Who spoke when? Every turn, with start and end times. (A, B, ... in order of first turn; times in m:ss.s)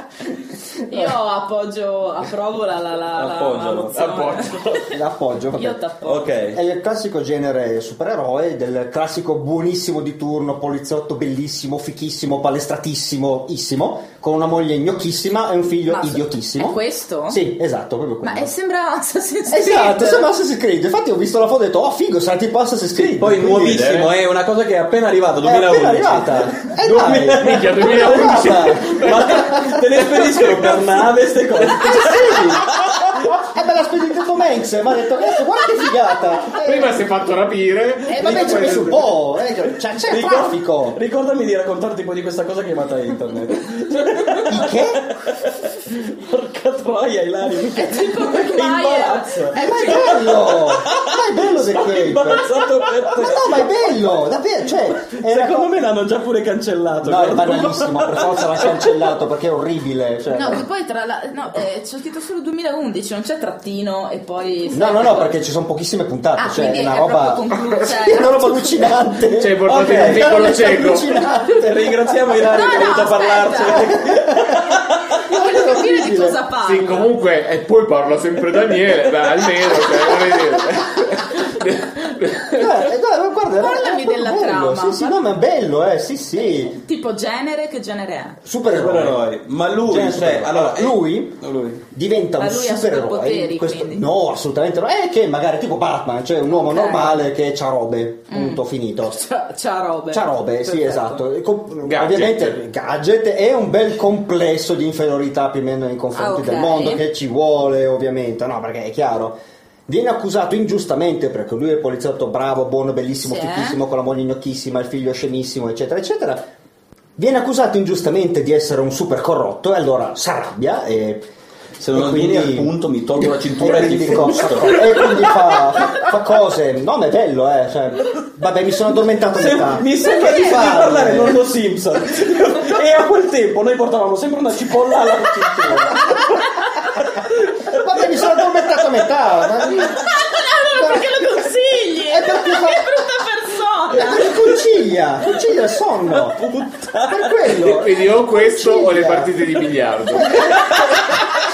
0:00.8-0:04.8 A
0:03.2-0:04.0 B
0:03.9-0:05.0 C
0:04.9-0:05.8 D
0:05.6-0:06.3 A
0:06.1-0:06.6 B
0:06.5-0:18.5 D
0:15.9-0:17.4 A
0:18.2-0:20.3 A
0:19.5-0:23.9 D
0:22.9-0:32.7 B
0:23.6-0:24.1 C
0:25.4-0:29.8 D
0:27.4-0:30.8 C
0:31.7-0:37.0 D
0:36.5-0:39.2 C
0:38.1-0:41.0 D
0:38.1-0:38.5 A
0:40.1-0:53.9 B
0:44.4-0:45.1 D
0:47.7-0:50.3 A
0:49.5-0:55.8 D
0:55.0-0:59.0 B
0:57.0-1:00.7 D
1:00.3-1:05.4 A
1:04.7-1:12.8 D
1:06.4-1:08.9 A
1:09.3-1:11.2 C
1:09.7-1:10.5 B
1:11.4-1:15.0 B
1:12.3-1:14.0 A
1:13.7-1:16.4 D
1:15.2-1:17.1 A
1:16.6-1:22.9 C
1:22.5-1:26.8 D
1:23.6-1:25.3 A
1:26.5-1:28.4 A
1:28.4-1:29.3 D
1:28.7-1:31.8 B
1:29.8-1:39.2 D
1:32.4-1:34.1 A
1:36.5-1:37.2 A
1:38.3-1:41.2 A
1:40.1-1:56.5 D
1:41.9-1:42.6 C
1:46.1-1:47.0 A
1:53.2-1:53.8 A
1:57.2-2:01.3 D
2:01.8-2:05.6 B
2:01.9-2:11.5 D
2:09.4-2:16.3 B
2:10.2-2:10.4 A
2:17.2-2:17.8 B
2:17.7-2:20.1 D
2:19.7-2:24.6 A
2:20.7-2:21.2 D
2:22.1-2:22.9 D
2:23.9-2:29.5 D
2:26.1-2:27.7 B
2:27.6-2:30.6 C
2:30.2-2:31.2 D